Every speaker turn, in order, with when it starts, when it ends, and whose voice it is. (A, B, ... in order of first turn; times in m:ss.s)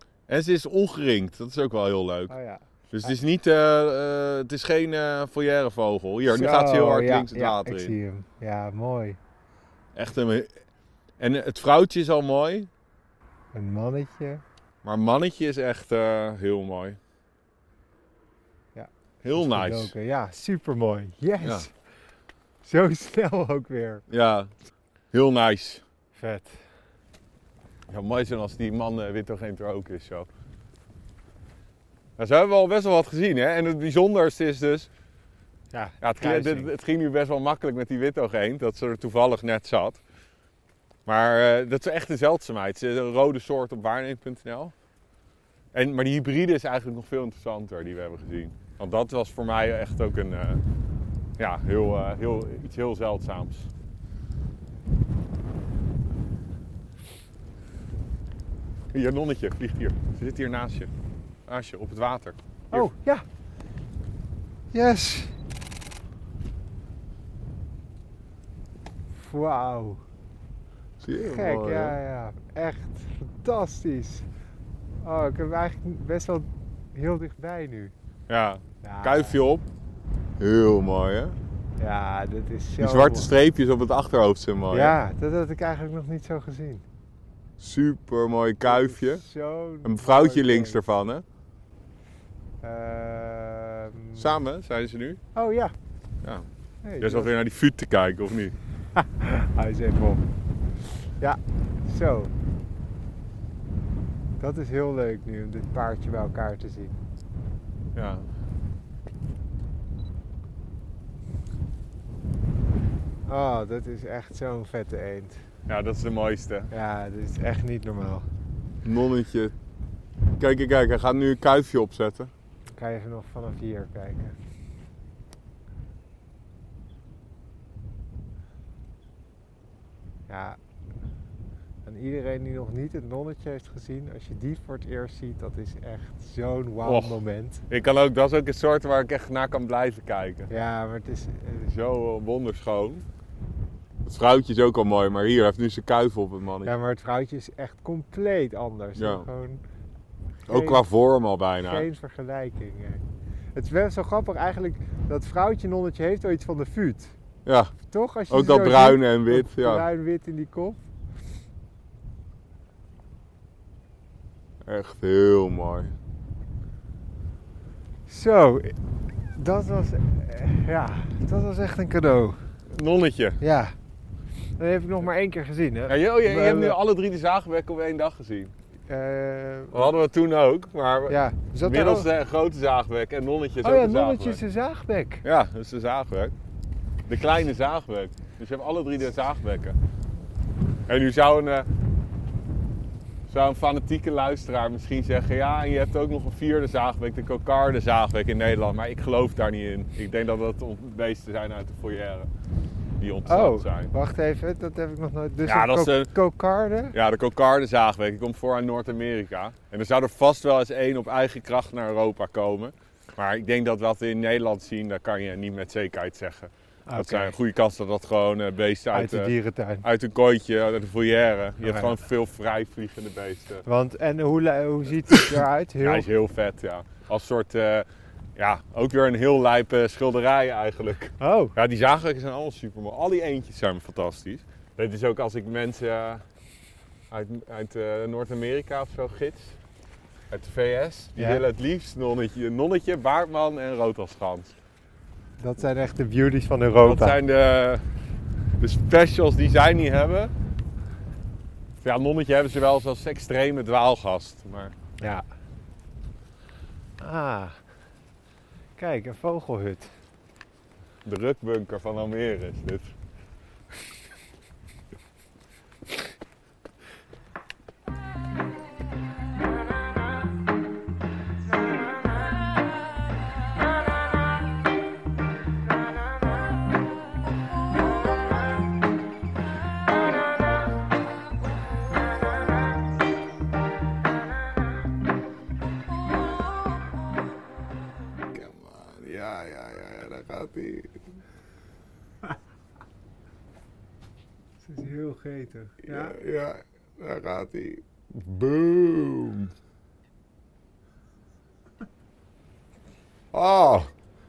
0:00.3-0:02.3 A
0:02.3-0:03.2 B
0:02.9-0:08.0 A
0:06.3-0:09.2 B
0:09.9-0:10.5 A
0:11.2-0:12.7 A
0:13.5-0:14.4 B
0:14.8-0:17.0 A
0:18.8-0:21.7 B
0:19.2-0:19.9 A
0:22.6-0:24.0 B
0:24.1-0:24.5 A
0:25.1-0:25.8 A
0:26.2-0:26.6 B
0:27.9-0:30.3 A
0:32.2-0:34.9 A
0:35.7-0:36.7 B
0:36.0-0:40.0 A
0:41.1-0:44.7 A
0:45.7-0:50.6 A
0:51.4-0:53.7 A
0:58.9-1:00.9 A
1:01.5-1:02.9 A
1:02.7-1:03.2 B
1:04.7-1:05.3 B
1:09.2-1:10.0 B
1:11.0-1:12.0 A
1:11.1-1:14.3 B
1:15.0-1:17.9 B
1:18.3-1:19.6 A
1:18.8-1:19.4 B
1:20.4-1:21.4 A
1:21.8-1:23.3 B
1:22.8-1:25.0 A
1:24.7-1:26.8 B
1:27.6-1:29.2 A
1:28.6-1:30.9 B
1:29.8-1:31.2 A
1:32.6-1:34.4 B
1:34.2-1:35.2 A
1:35.4-1:35.7 B
1:36.8-1:37.3 B
1:37.0-1:38.6 A
1:39.0-1:40.2 B
1:41.2-1:42.3 B
1:44.4-1:47.0 B
1:48.0-1:48.3 A
1:53.3-1:55.4 B
1:55.7-1:56.7 A
1:56.7-1:58.3 B
1:58.8-1:59.5 A
2:00.4-2:02.3 A
2:02.8-2:04.4 B
2:10.3-2:10.6 B
2:11.9-2:17.6 B
2:16.8-2:20.5 A
2:20.5-2:21.7 B
2:21.7-2:23.1 A
2:24.0-2:26.7 A
2:26.6-2:29.6 B
2:29.0-2:29.2 A
2:30.5-2:30.9 B
2:30.5-2:31.9 A
2:31.6-2:33.0 B
2:33.6-2:37.1 B
2:37.4-2:37.8 A
2:37.9-2:40.8 B
2:38.3-2:39.8 A
2:44.6-2:45.9 A
2:48.1-2:48.7 B
2:49.4-2:52.4 B
2:52.7-2:53.4 A
2:53.4-2:53.8 B
2:54.6-2:56.8 B
2:55.9-2:58.5 A
2:58.9-2:59.9 B
2:59.7-3:04.4 A
3:01.1-3:02.1 B
3:03.6-3:05.2 B
3:05.2-3:06.3 A
3:07.1-3:09.8 A
3:10.9-3:11.7 A
3:13.3-3:22.3 A
3:23.0-3:23.9 A
3:23.3-3:27.0 B
3:25.4-3:26.1 A
3:26.9-3:43.6 A
3:36.9-3:37.3 B
3:38.9-3:39.9 B
3:41.6-3:42.0 B
3:43.7-3:46.1 B
3:45.1-3:56.2 A
3:51.2-3:51.6 B
3:57.1-3:59.6 A
4:00.3-4:04.6 A
4:01.2-4:01.4 B
4:05.4-4:07.2 B
4:06.8-4:07.8 A
4:08.6-4:10.3 A
4:11.8-4:14.8 A
4:17.0-4:17.6 B
4:18.8-4:19.9 B
4:21.0-4:22.9 A
4:48.3-4:51.0 A
4:54.6-4:56.2 B
4:55.9-4:59.5 A
5:03.3-5:03.9 A